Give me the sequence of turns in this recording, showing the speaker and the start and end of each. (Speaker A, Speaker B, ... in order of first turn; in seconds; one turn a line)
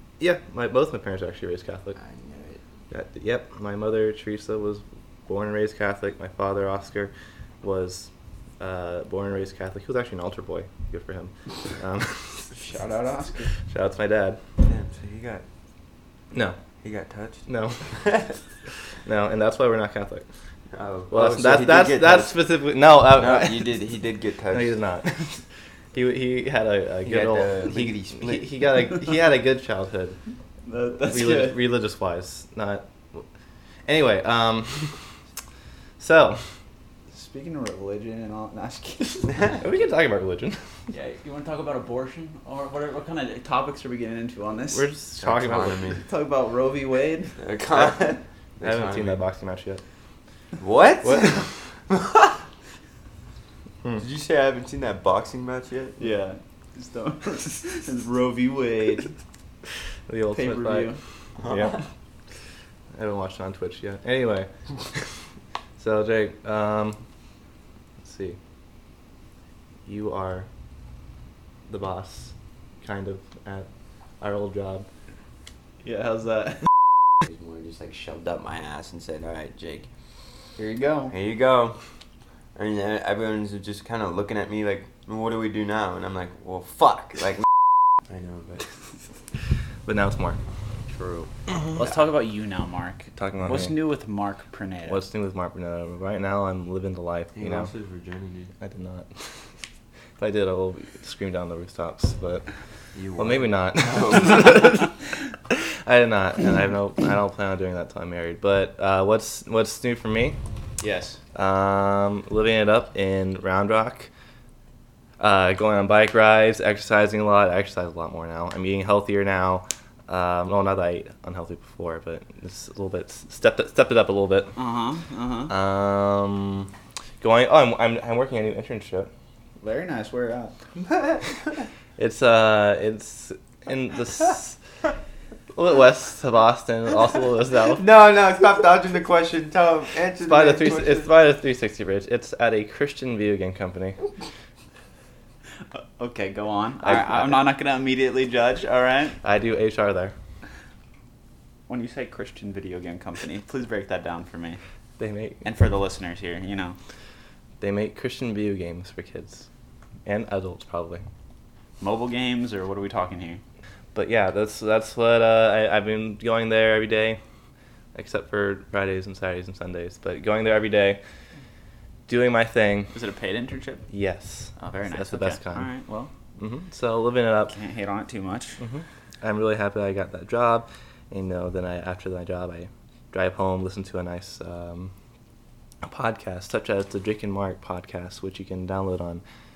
Speaker A: 0.2-2.0
Speaker B: 1.9-2.6
Speaker A: 2.9-12.5
Speaker C: 12.5-13.5
Speaker A: 13.6-14.4
Speaker B: 14.6-15.4
Speaker A: 16.3-16.6
Speaker B: 16.8-18.4
Speaker A: 17.5-18.0
Speaker A: 19.0-20.3
Speaker B: 20.7-22.4
Speaker A: 21.1-23.8
Speaker B: 23.1-24.8
Speaker A: 24.5-30.2
Speaker B: 27.0-28.6
Speaker C: 30.6-31.6
Speaker A: 31.0-33.3
Speaker A: 33.9-35.1
Speaker A: 36.0-36.5
Speaker C: 37.1-39.6
Speaker A: 39.6-40.6
Speaker C: 40.9-44.9
Speaker A: 44.7-45.9
Speaker B: 45.2-46.0
Speaker C: 45.9-47.4
Speaker B: 47.4-49.2
Speaker A: 48.6-49.8
Speaker B: 50.6-52.4
Speaker A: 51.0-51.3
Speaker B: 54.0-56.0
Speaker C: 56.0-59.2
Speaker A: 60.1-61.8
Speaker C: 60.3-61.0
Speaker B: 61.4-61.8
Speaker A: 62.9-65.1
Speaker A: 65.8-67.0
Speaker A: 68.0-68.4
Speaker A: 69.8-70.5
Speaker A: 71.7-73.7
Speaker A: 74.2-74.9
Speaker C: 75.8-76.8
Speaker B: 77.2-79.9
Speaker C: 80.6-81.1
Speaker B: 81.1-81.8
Speaker B: 82.5-87.5
Speaker B: 88.0-88.7
Speaker A: 89.8-90.4
Speaker C: 90.9-95.0
Speaker A: 93.2-93.8
Speaker A: 94.8-97.7
Speaker B: 97.3-98.5
Speaker A: 98.6-99.5
Speaker A: 100.2-102.5
Speaker B: 102.9-104.7
Speaker A: 103.2-104.9
Speaker A: 105.5-110.4
Speaker C: 110.8-111.2
Speaker A: 111.3-114.1
Speaker A: 115.2-124.5
Speaker C: 124.5-125.5
Speaker A: 125.5-129.1
Speaker C: 129.6-130.5
Speaker B: 130.8-131.6
Speaker A: 132.0-134.6
Speaker A: 135.5-137.8
Speaker B: 137.7-141.1
Speaker A: 140.2-144.0
Speaker C: 145.7-149.2
Speaker A: 146.8-147.3
Speaker A: 149.2-150.1
Speaker C: 151.7-154.6
Speaker A: 155.0-155.4
Speaker C: 155.4-156.8
Speaker A: 157.6-159.5
Speaker A: 160.1-161.0
Speaker C: 161.8-163.4
Speaker A: 163.9-167.2
Speaker A: 167.9-171.0
Speaker A: 172.1-172.9
Speaker C: 172.9-173.9
Speaker A: 173.9-175.7
Speaker C: 174.6-176.1
Speaker A: 176.4-177.5
Speaker C: 177.5-178.6
Speaker A: 178.6-184.9
Speaker A: 185.8-189.2